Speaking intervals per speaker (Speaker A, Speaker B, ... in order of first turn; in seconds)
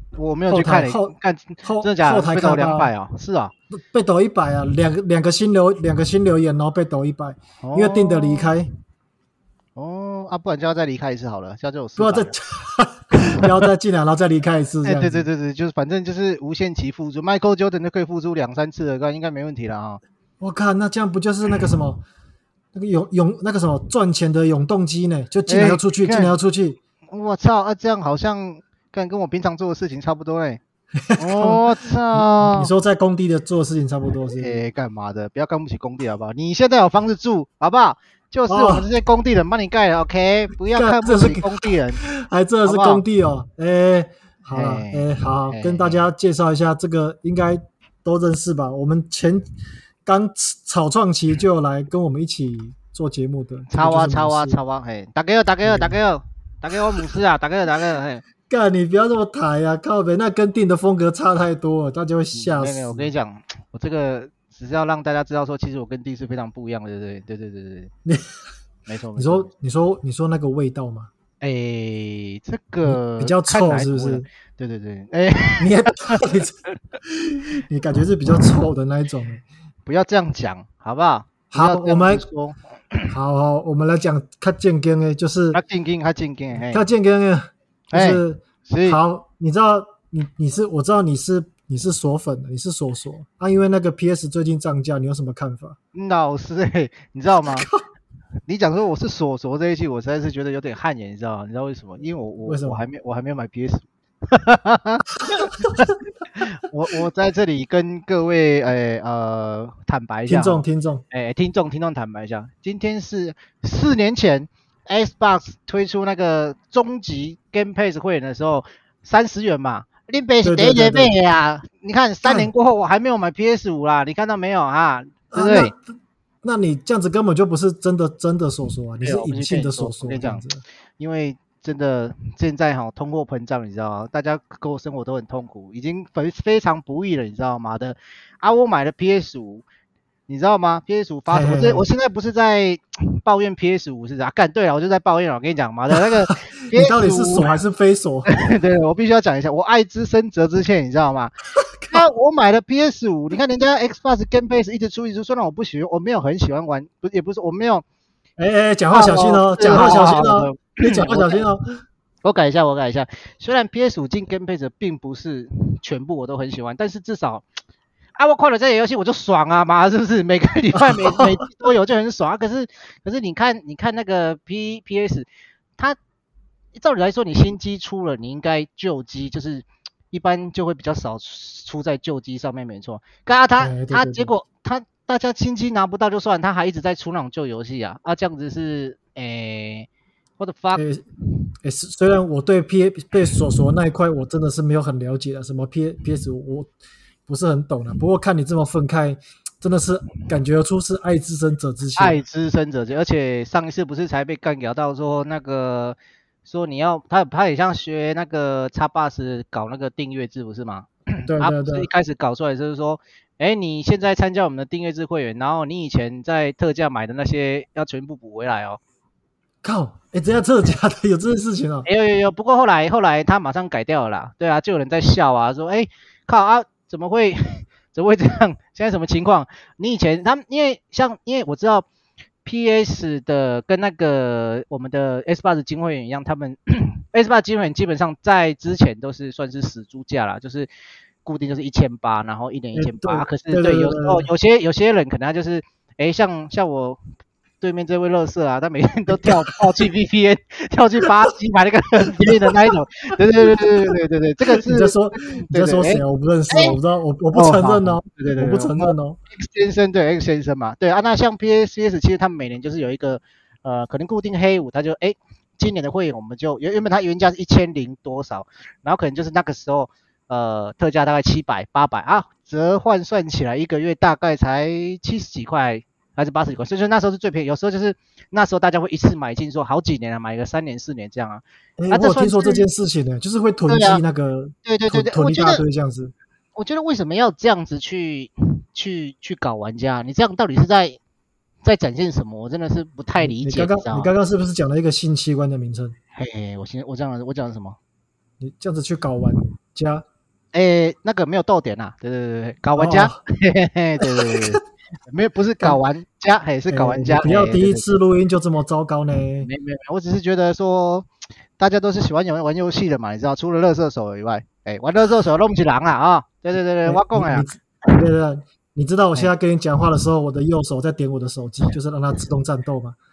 Speaker A: 0.1-3.5, 7.6-8.5, 9.8-12.3, 14.8-20.0, 25.5-26.4, 27.1-30.6, 31.2-32.7, 34.2-42.0, 42.6-43.0, 44.5-46.0, 53.7-58.2, 62.3-67.9, 68.9-69.5, 71.4-75.9, 79.8-83.1, 85.5-86.8, 87.9-89.0, 95.9-97.7, 98.5-105.9, 106.4-125.7, 129.0-139.6, 140.3-147.5, 148.3-151.3, 151.9-157.8, 158.9-161.4, 162.2-167.4, 168.2-175.3, 176.7-189.9, 190.4-190.8, 202.0-218.8, 221.8-231.9, 232.4-240.7, 241.2-247.0, 247.6-256.8, 257.3-282.6, 283.7-284.0, 284.6-285.6, 286.6-291.0, 291.6-294.1, 296.1-297.8, 300.5-307.9, 309.4-311.1, 311.6-318.0
Speaker B: 0.5-2.9, 3.7-8.7, 12.0-15.3, 20.4-22.0, 22.7-26.8, 31.0-34.6, 38.5-38.9, 40.7-49.4, 50.0-54.6, 55.6-56.0, 58.5-63.1, 68.0-68.3, 69.2-71.1, 72.8-74.3, 75.6-79.4, 81.5-82.2, 83.1-85.6, 86.6-95.8, 97.5-97.8, 102.5-102.8, 105.4-105.8, 110.3-111.0, 120.4-121.2, 122.2-122.5, 125.3-125.8, 126.4-130.6, 141.3-141.9, 146.3-148.3, 151.5-152.0, 158.4-161.7, 170.8-171.4, 183.6-184.3, 190.7-191.0, 191.6-196.7, 197.3-202.2, 211.3-211.9, 219.6-221.9, 242.7-244.3, 249.1-249.8, 252.2-252.5, 254.6-259.2, 281.8-286.1, 293.2-295.9, 298.4-300.0, 302.8-303.2, 304.0-304.6, 306.7-309.5, 316.8-323.0